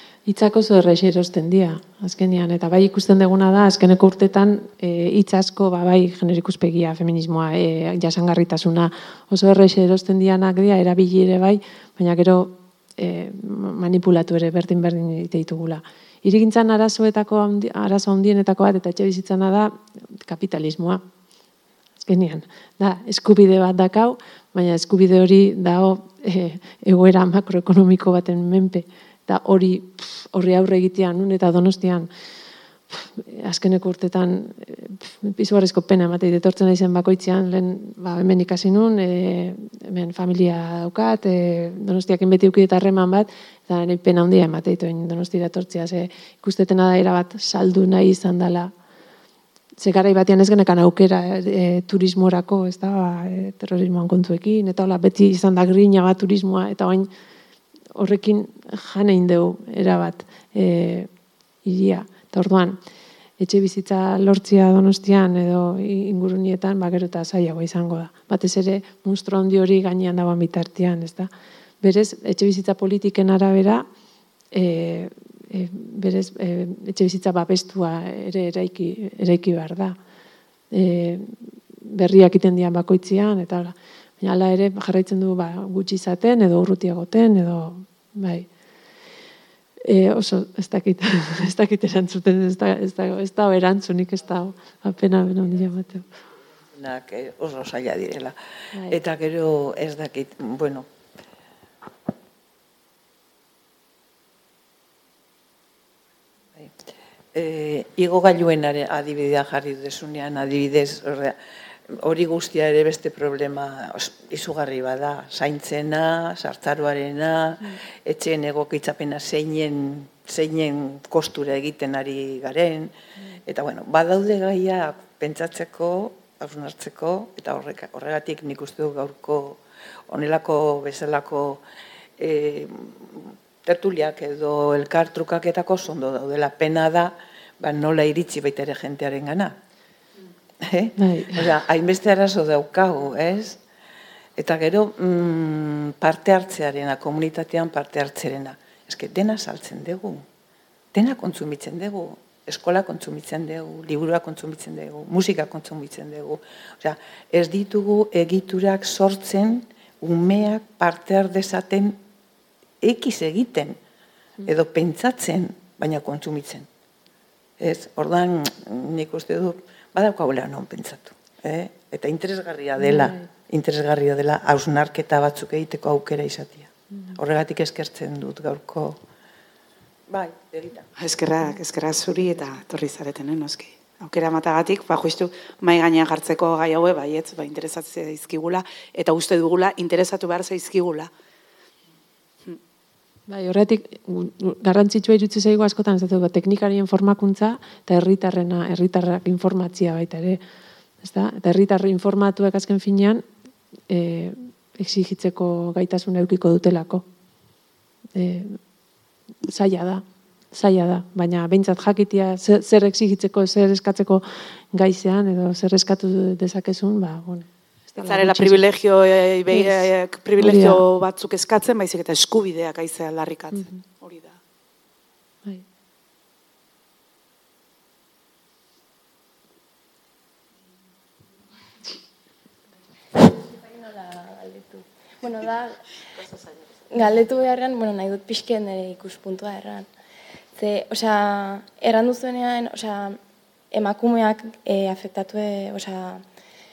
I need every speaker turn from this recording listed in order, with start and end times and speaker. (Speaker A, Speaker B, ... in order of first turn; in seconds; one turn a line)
Speaker A: 0.3-21.0
Speaker A: 22.0-32.1
Speaker A: 32.9-48.7
Speaker A: 49.8-57.1
Speaker A: 58.0-61.1
Speaker A: 61.6-62.8
Speaker A: 63.4-71.3
Speaker A: 71.8-73.8
Speaker A: 74.5-80.0
Speaker A: 80.7-88.5
Speaker A: 89.8-96.1
Speaker B: 96.7-98.4
Speaker A: 98.7-99.0
Speaker B: 98.9-100.9
Speaker B: 107.3-111.4
Speaker B: 111.9-122.9
Speaker B: 123.5-131.6
Speaker B: 132.2-139.6
Speaker B: 140.6-143.6
Speaker A: 141.0-141.5
Speaker B: 144.4-150.2
Speaker B: 150.9-162.0
Speaker B: 162.8-163.8
Speaker B: 164.4-166.7
Speaker B: 167.6-179.0
Speaker A: 172.8-173.2
Speaker B: 180.1-180.9
Speaker C: 181.0-191.1
Speaker A: 193.3-200.4
Speaker A: 201.0-203.2
Speaker A: 203.9-207.1
Speaker A: 208.2-208.6
Speaker A: 209.4-218.6
Speaker C: 218.0-224.4
Speaker A: 219.5-220.8
Speaker D: 233.2-235.9
Speaker D: 236.9-239.9
Speaker D: 240.6-243.2
Speaker D: 243.7-246.2